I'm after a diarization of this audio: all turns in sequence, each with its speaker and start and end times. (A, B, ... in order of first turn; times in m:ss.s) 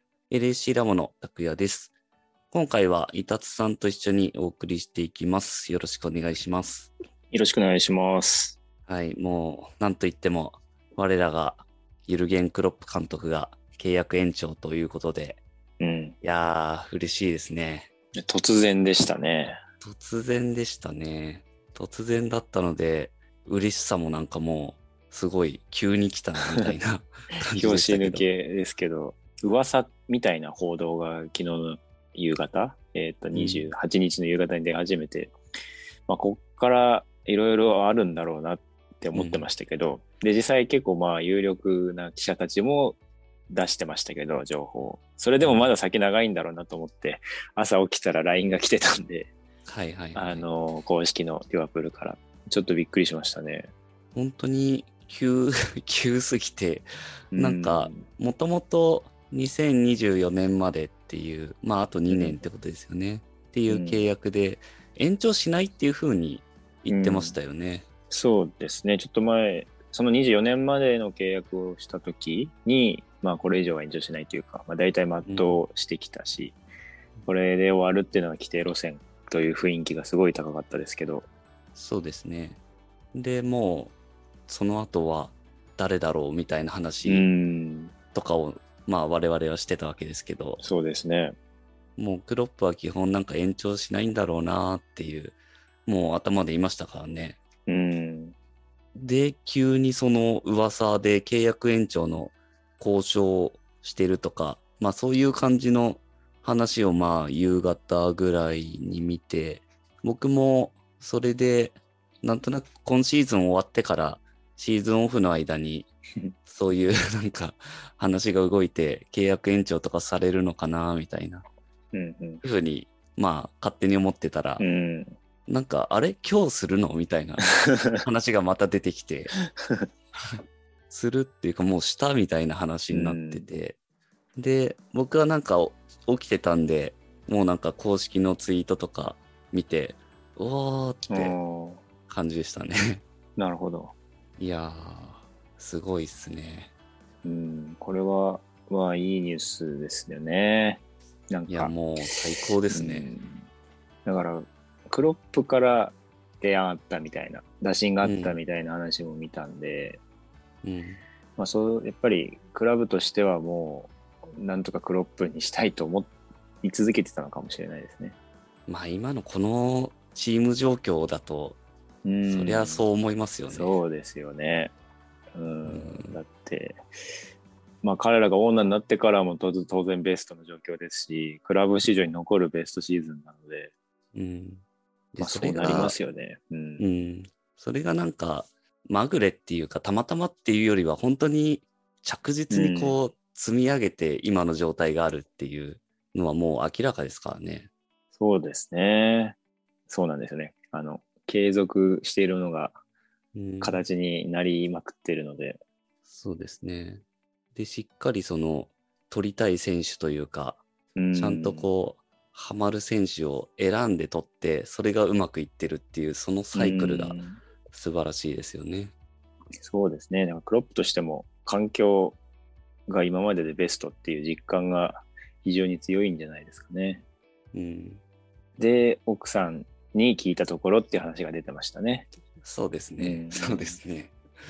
0:00.3-0:01.9 A
0:02.5-0:06.9 A
0:07.3-0:08.6 B
0:08.9-0:15.4 A
0:15.8-0:16.2 B
0:16.2-0:17.9 A
0:18.2-0:19.6 B
0:19.8-0:28.3 A
0:27.5-0:35.3 B
0:33.3-0:33.7 A
0:36.1-0:43.0 B
0:39.1-0:39.5 A
0:43.5-0:49.3 B
0:45.4-0:45.7 A
0:49.7-0:50.5 A
0:50.2-0:53.7 B
0:54.1-1:07.9 A
0:57.3-0:58.0 B
1:02.1-1:02.4 B
1:03.7-1:04.1 B
1:06.9-1:07.4 B
1:08.1-1:16.6 B
1:15.2-1:15.6 A
1:17.3-1:21.3 B
1:21.8-1:22.6 A
1:23.1-1:24.0 A
1:24.5-1:27.3 A
1:27.0-1:27.9 B
1:28.1-1:30.6 A
1:30.6-1:31.4 B
1:32.0-1:37.4 A
1:37.7-1:38.4 B
1:39.0-1:55.9 A
1:56.4-2:01.4 A
2:01.9-2:02.4 B
2:02.4-2:04.6 A
2:04.6-2:05.1 B
2:05.5-2:09.3 A
2:07.7-2:08.0 B
2:09.6-2:09.8 B
2:10.9-2:13.8 A
2:12.9-2:13.5 B
2:14.4-2:21.4 A
2:21.1-2:21.8 B
2:22.1-2:23.0 A
2:23.4-2:23.9 B
2:24.4-2:26.7 A
2:27.2-2:31.8 B
2:31.5-2:33.1 A
2:32.7-2:33.4 B
2:34.0-2:40.0 B
2:38.0-2:38.4 A
2:40.6-2:41.0 A
2:41.4-2:46.1 B
2:46.6-2:48.2 B
2:48.7-2:51.6 A
2:52.0-2:52.8 B
2:52.3-2:53.8 A
2:53.5-2:54.7 B
2:55.3-2:56.8 B
2:55.7-2:56.2 A
2:57.8-3:03.7 B
3:04.1-3:06.0 A
3:05.2-3:06.8 B
3:06.8-3:17.7 A
3:12.5-3:13.0 B
3:18.2-3:19.4 B
3:19.9-3:22.8 B
3:23.3-3:23.8 A
3:23.6-3:25.6 B
3:26.1-3:27.0 A
3:27.6-3:30.6 A
3:31.0-3:31.7 B
3:31.1-3:38.9 A
3:36.5-3:37.4 B
3:39.6-3:42.2 B
3:42.9-3:47.0 B
3:47.5-3:48.0 A
3:48.6-3:52.1 B
3:52.4-3:54.2 A
3:53.0-3:53.8 B